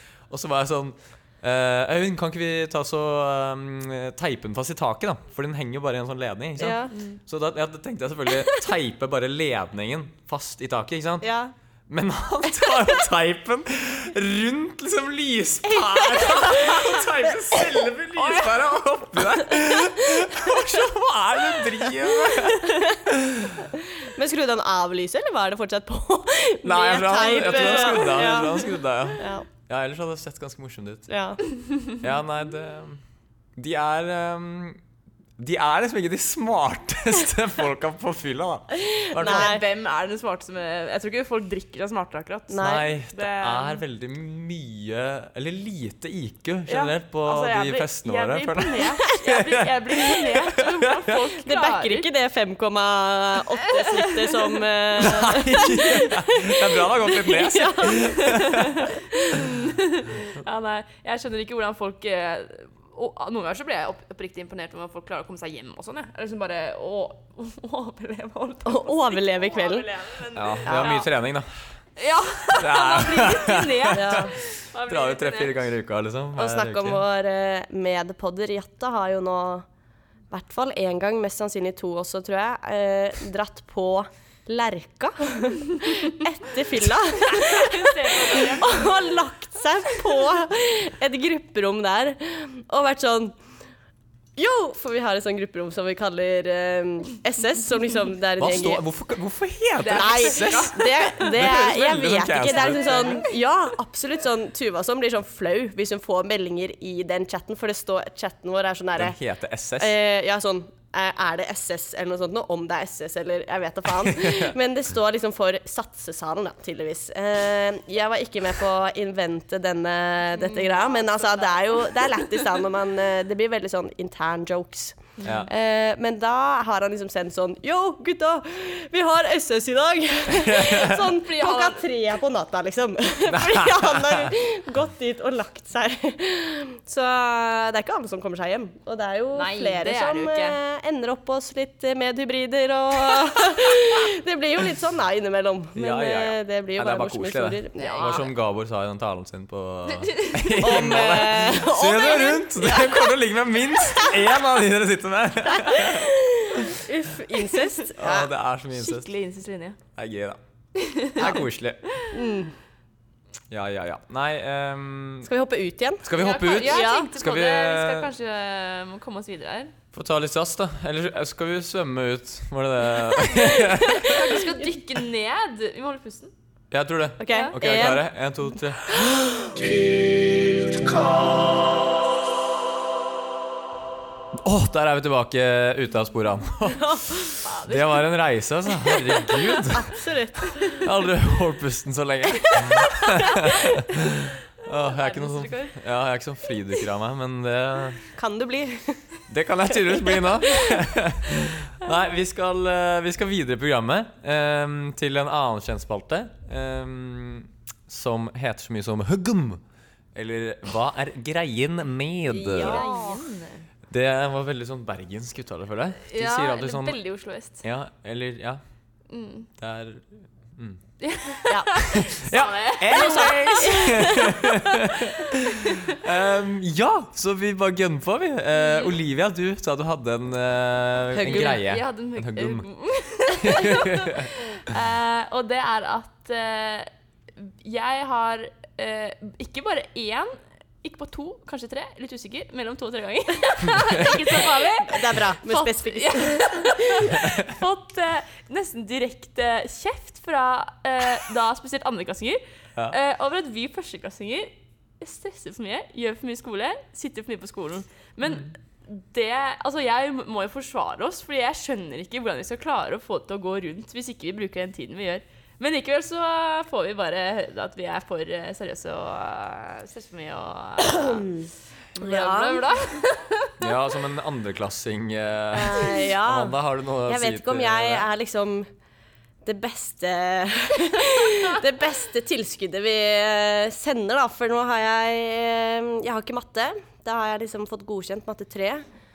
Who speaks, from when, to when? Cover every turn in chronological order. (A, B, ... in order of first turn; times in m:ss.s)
0:00.3-0:11.3 A
0:06.6-0:07.0 B
0:06.9-0:07.2 C
0:11.2-0:11.5 B
0:11.9-0:23.7 A
0:15.7-0:17.1 B
0:23.7-0:29.5 B
0:26.6-0:31.1 A
0:31.1-0:31.4 B
0:32.0-0:33.0 A
0:33.6-0:34.8 A
0:35.4-0:39.6 A
0:38.8-0:39.6 B
0:39.2-0:43.8 C
0:42.5-0:42.9 B
0:42.6-0:50.6 A
0:46.7-0:52.1 C
0:51.4-0:58.1 B
0:53.7-0:54.3 C
0:55.0-0:58.9 A
0:58.0-1:11.1 C
1:08.6-1:09.9 B
1:10.3-1:11.5 A
1:10.6-1:11.0 B
1:12.0-1:15.7 C
1:12.6-1:17.0 A
1:13.9-1:14.3 B
1:16.4-1:19.6 B
1:20.3-1:33.4 B
1:27.2-1:29.0 C
1:34.4-1:38.8 B
1:38.4-1:43.2 A
1:39.8-1:41.4 C
1:39.9-1:49.2 B
1:49.0-1:50.0 A
1:49.8-2:28.2 B
1:54.0-1:54.5 A
2:00.4-2:02.0 C
2:05.2-2:05.5 C
2:05.2-2:05.5 A
2:10.4-2:11.1 A
2:11.1-2:11.8 C
2:13.3-2:14.3 A
2:19.3-2:20.6 C
2:25.8-2:36.8 A
2:27.8-2:28.3 C
2:29.9-2:30.5 C
2:30.5-2:33.1 B
2:35.5-2:38.3 B
2:38.0-2:39.1 A
2:38.7-2:39.8 C
2:40.0-2:40.4 A
2:40.8-2:41.4 C
2:41.1-2:41.8 A
2:41.2-2:41.5 B
2:42.1-2:42.5 B
2:43.5-2:45.3 A
2:45.2-2:46.1 B
2:46.0-2:48.1 A
2:46.1-2:49.7 C
2:46.6-2:47.1 B
2:49.9-2:54.2 A
2:53.8-2:56.3 C
2:56.7-2:59.0 A
2:57.2-2:58.0 B
2:57.3-2:57.6 C
2:58.9-2:59.8 B
3:04.4-3:10.0 A
3:06.8-3:07.3 B
3:07.4-3:08.0 C
3:09.7-3:10.9 B
3:10.7-3:18.1 A
3:13.2-3:13.6 C
3:14.6-3:15.8 C
3:18.2-3:19.0 B
3:19.3-3:29.6 A
3:30.1-3:32.8 A
3:32.3-3:33.2 B
3:32.6-3:33.7 C
3:33.9-3:37.0 A
3:36.0-3:37.6 C
3:37.6-3:38.6 A
3:39.1-3:39.5 C
3:39.6-3:40.8 A
3:41.0-3:44.1 C
3:41.8-3:52.6 A
3:42.9-3:44.5 B
3:45.5-3:46.0 C
3:48.6-3:48.9 C
3:51.1-3:51.6 B
3:51.2-4:31.3 C
3:53.4-3:54.3 A
4:04.8-4:06.8 B
4:30.9-4:32.6 B
4:32.0-4:33.6 C
4:33.6-4:38.1 A
4:35.5-4:38.7 B
4:39.4-4:48.9 B